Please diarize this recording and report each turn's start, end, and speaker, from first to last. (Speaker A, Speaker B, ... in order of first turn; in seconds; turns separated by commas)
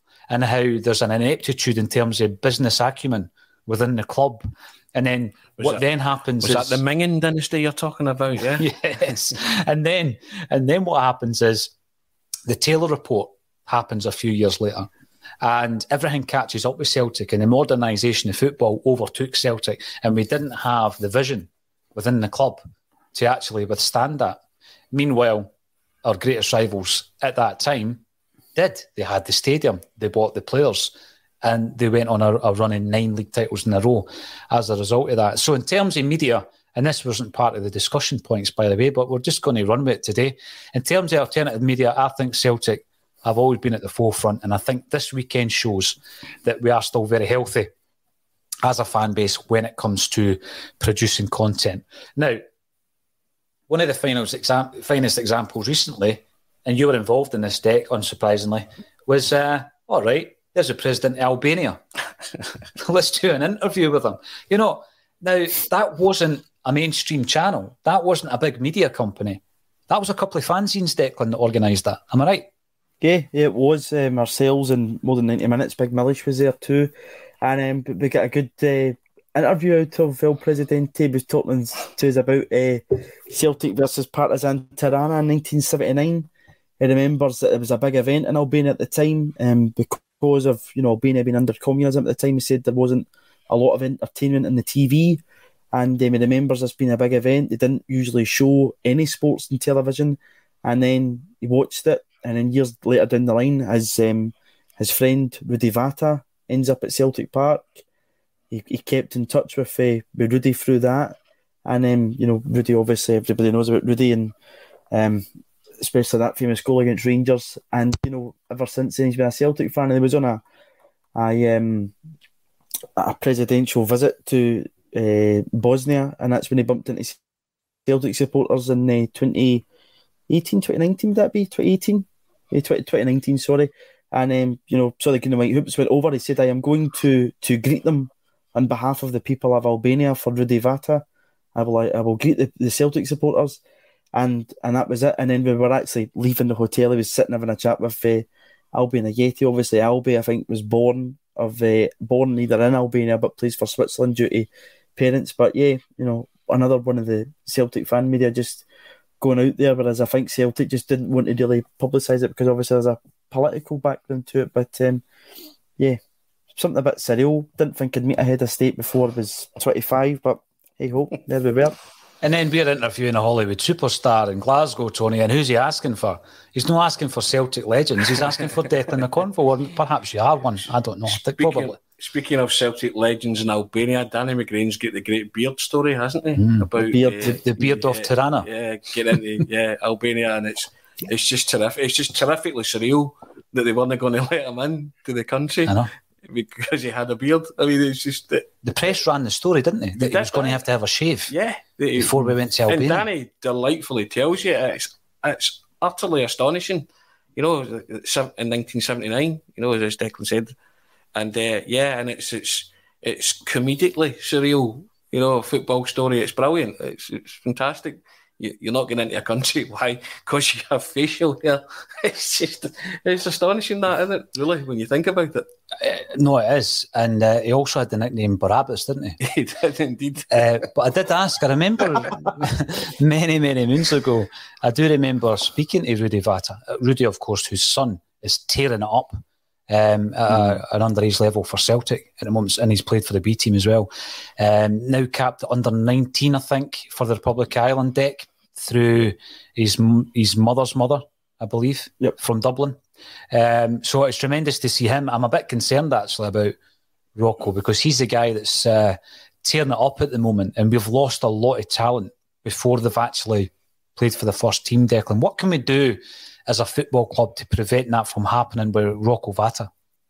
Speaker A: 0.3-6.8, Speaker B: 6.4-8.7, Speaker A: 8.6-11.7, Speaker A: 12.5-14.9, Speaker A: 15.4-22.6, Speaker A: 23.1-24.4, Speaker A: 24.9-25.5, Speaker A: 26.0-28.0, Speaker A: 28.5-47.7, Speaker A: 48.6-52.4, Speaker A: 53.7-61.8, Speaker A: 62.8-72.5, Speaker C: 73.0-95.2, Speaker C: 95.7-107.8, Speaker C: 108.5-114.3, Speaker C: 114.9-115.2, Speaker C: 115.8-120.4, Speaker C: 121.2-121.9, Speaker C: 123.0-127.2, Speaker C: 127.8-129.6, Speaker C: 130.3-143.6, Speaker C: 144.1-158.7, Speaker C: 159.2-165.0, Speaker C: 166.5-171.8, Speaker A: 172.2-181.8, Speaker B: 181.1-198.5, Speaker A: 186.3-186.7, Speaker C: 186.8-187.4, Speaker A: 187.2-188.5, Speaker A: 198.6-201.3, Speaker B: 200.0-200.6, Speaker B: 201.3-210.5, Speaker A: 202.0-203.1, Speaker B: 211.1-225.5, Speaker A: 225.8-229.2, Speaker B: 229.2-230.7, Speaker A: 230.3-252.8, Speaker A: 253.3-256.5, Speaker A: 257.1-269.7